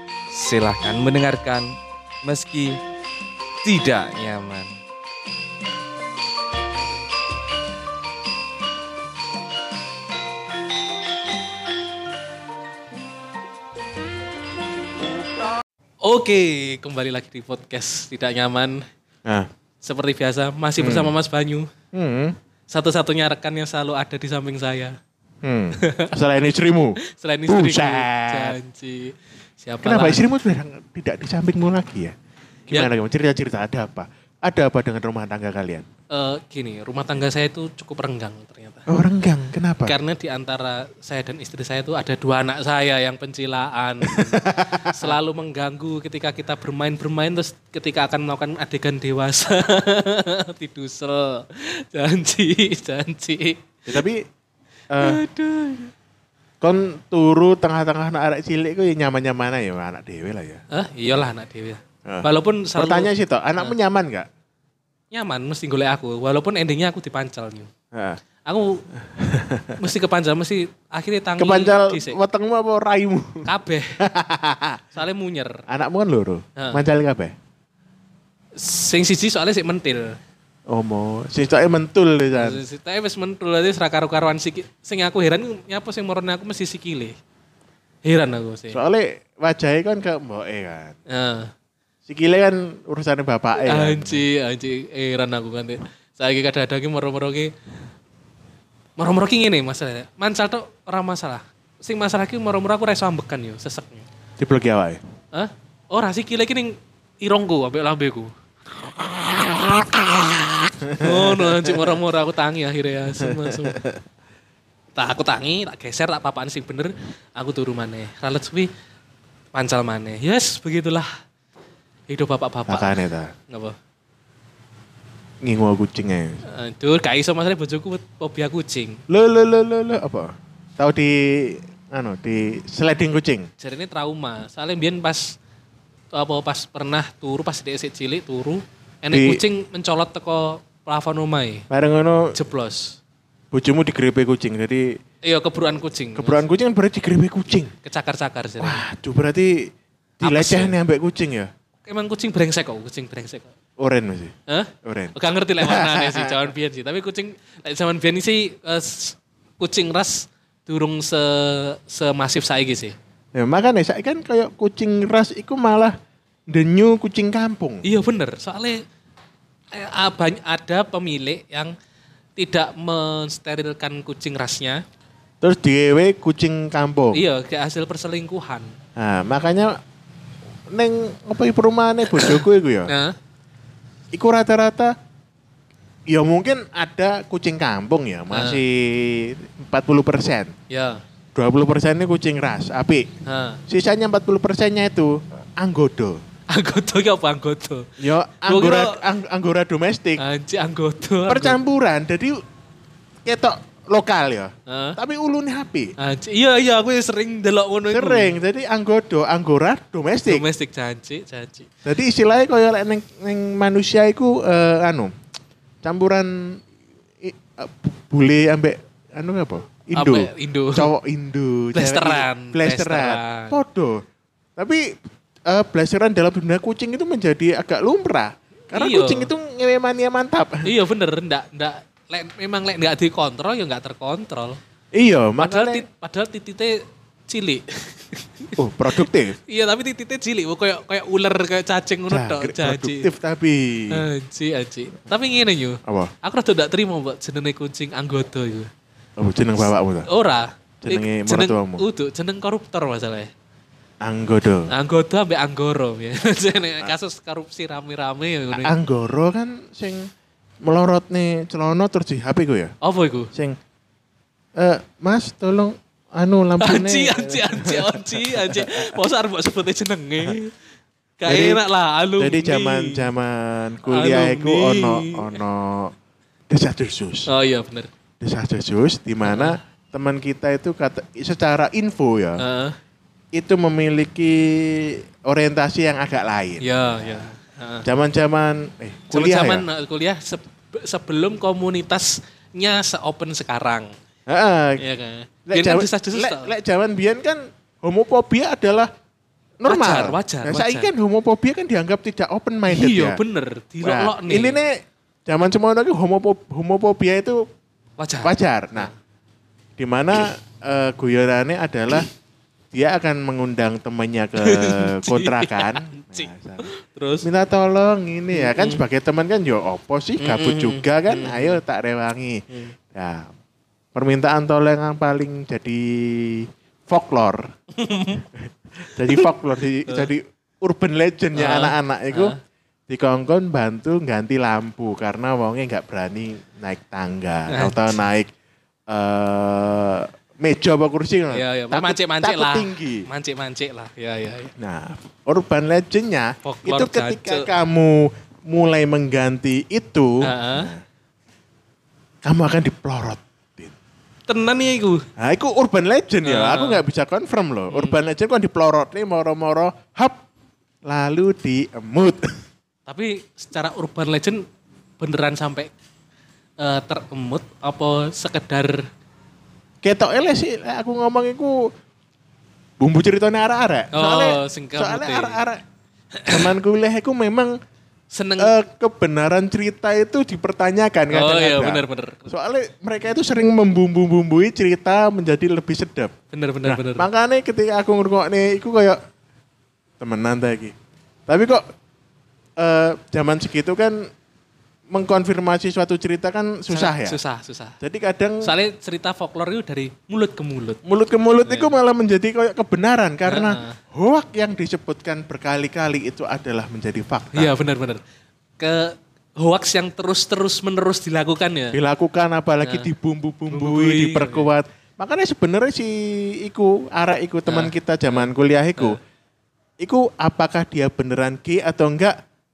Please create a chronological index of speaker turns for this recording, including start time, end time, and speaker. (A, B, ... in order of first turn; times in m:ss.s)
0:00.3-0:02.8 A
0:03.6-0:04.8 A
0:16.0-0:18.9 B
0:19.8-0:21.7 B
0:20.8-0:21.1 C
0:21.9-0:22.4 C
0:22.7-0:25.0 B
0:25.4-0:28.6 C
0:25.8-0:26.1 B
0:27.0-0:30.2 B
0:29.8-0:32.1 C
0:32.7-0:35.8 C
0:36.1-0:38.9 B
0:38.9-0:40.0 C
0:39.8-0:54.0 B
0:44.0-0:45.2 C
0:53.9-0:54.2 C
0:54.9-0:55.2 C
0:55.0-0:55.9 B
0:56.6-1:00.6 C
1:00.7-1:03.8 B
1:02.0-1:04.3 C
1:05.1-1:07.7 B
1:07.9-1:08.2 C
1:08.4-1:08.8 B
1:09.0-1:09.8 C
1:09.8-1:12.2 B
1:11.4-1:13.5 C
1:13.4-1:14.0 B
1:14.0-1:14.8 C
1:14.9-1:15.6 B
1:15.7-1:17.3 C
1:16.6-1:16.8 B
1:18.6-1:20.2 B
1:20.7-1:22.6 C
1:22.3-1:27.1 B
1:28.0-1:28.8 B
1:28.7-1:31.0 C
1:31.1-1:31.5 B
1:32.1-1:34.2 C
1:33.7-1:37.5 B
1:39.0-1:44.1 B
1:44.4-1:45.0 C
1:45.3-1:48.3 B
1:48.8-1:52.0 C
1:50.9-1:53.8 B
1:53.2-1:54.0 C
1:55.0-1:58.7 B
1:59.5-2:01.1 B
2:02.1-2:03.0 B
2:02.7-2:03.3 C
2:03.5-2:03.8 B
2:05.4-2:06.4 C
2:06.5-2:09.0 B
2:09.1-2:13.5 C
2:13.6-2:15.4 B
2:16.1-2:21.6 B
2:19.1-2:19.4 C
2:21.7-2:22.3 C
2:22.3-2:23.0 B
2:23.5-2:24.9 C
2:25.2-2:26.4 B
2:26.2-2:27.7 C
2:27.8-2:28.8 B
2:28.6-2:31.5 C
2:30.2-2:30.8 B
2:31.9-2:33.5 B
2:33.8-2:36.4 C
2:34.5-2:43.0 B
2:43.4-2:46.0 C
2:46.5-2:47.8 C
2:47.8-2:48.8 B
2:49.7-2:51.7 B
2:52.4-2:54.8 B
2:55.4-2:57.2 C
2:57.1-2:58.7 B
2:59.0-2:59.8 C
3:00.7-3:02.9 C
3:02.2-3:03.2 B
3:04.1-3:04.9 C
3:06.1-3:10.5 C
3:08.3-3:08.6 B
3:10.7-3:11.0 B
3:11.4-3:13.1 C
3:13.3-3:13.6 B
3:13.7-3:16.2 C
3:16.5-3:19.0 B
3:18.0-3:20.2 C
3:20.2-3:21.6 B
3:21.3-3:22.4 C
3:23.2-3:25.9 C
3:24.7-3:25.0 B
3:26.0-3:28.4 B
3:27.9-3:30.4 C
3:30.3-3:31.7 B
3:31.8-3:35.1 C
3:35.8-3:36.6 C
3:37.2-3:44.0 C
3:40.0-3:40.9 B
3:41.8-3:43.6 B
3:44.6-3:44.9 C
3:45.5-3:50.6 C
3:48.7-3:49.3 B
3:50.6-3:54.6 B
3:54.9-3:55.8 C
3:55.4-4:03.1 B
3:58.6-3:59.4 C
4:02.1-4:04.0 C
4:03.9-4:08.7 B
4:05.8-4:06.1 C
4:09.2-4:10.1 C
4:10.1-4:13.3 B
4:10.8-4:11.8 C
4:14.0-4:14.7 C
4:14.7-4:18.7 B
4:18.5-4:20.1 C
4:20.6-4:22.7 C
4:22.8-4:23.3 B
4:24.6-4:29.0 C
4:26.6-4:30.5 B
4:31.2-4:33.1 B
4:31.3-4:31.6 C
4:32.2-4:35.9 C
4:33.9-4:35.4 B
4:36.5-4:37.3 C
4:37.3-4:37.9 B
4:38.2-4:42.4 C
4:39.2-4:39.6 B
4:42.4-4:42.8 B
4:43.4-4:47.3 C
4:46.6-4:47.9 B
4:47.8-4:49.6 C
4:49.1-4:53.9 B
4:54.3-4:54.8 C
4:54.8-4:56.5 B
4:55.5-4:58.9 C
4:59.6-5:03.2 C
4:59.7-5:00.9 B
5:02.7-5:04.6 B
5:03.8-5:07.4 C
5:08.0-5:08.9 B
5:08.2-5:08.9 C
5:09.8-5:12.1 C
5:12.7-5:16.7 C
5:14.4-5:17.3 B
5:17.2-5:23.3 C
5:18.3-5:18.8 B
5:20.2-5:21.6 B
5:23.9-5:27.5 C
5:27.7-5:28.2 B
5:28.2-5:32.4 C
5:28.9-5:29.3 B
5:31.4-5:32.4 B
5:32.9-5:38.3 C
5:37.5-5:38.0 B
5:38.9-5:43.1 C
5:41.3-5:44.5 B
5:44.6-5:50.8 C
5:46.4-5:47.5 B
5:50.2-5:50.7 B
5:52.2-5:53.7 C
5:54.3-5:55.0 B
5:55.2-6:00.2 C
5:56.2-5:56.8 B
5:57.7-5:58.0 B
6:00.8-6:02.2 C
6:02.9-6:04.4 B
6:05.0-6:05.7 B
6:06.6-6:08.8 B
6:09.8-6:11.7 C
6:12.8-6:15.6 C
6:13.9-6:15.4 B
6:16.2-6:16.4 B
6:16.3-6:17.6 C
6:18.1-6:18.5 B
6:18.4-6:26.1 C
6:21.1-6:22.3 B
6:26.3-6:27.1 B
6:26.6-6:29.0 C
6:30.0-6:30.7 C
6:31.3-6:31.6 C
6:32.6-6:34.0 C
6:34.9-6:37.2 C
6:36.7-6:37.8 B
6:37.8-6:38.5 C
6:38.4-6:40.8 B
6:40.8-6:47.5 C
6:41.5-6:41.7 B
6:43.3-6:43.8 B
6:47.3-6:48.0 B
6:48.6-6:51.8 B
6:51.7-6:59.0 C
6:52.6-6:52.9 B
6:53.5-6:54.5 B
6:57.5-6:58.3 B
6:59.8-7:02.2 C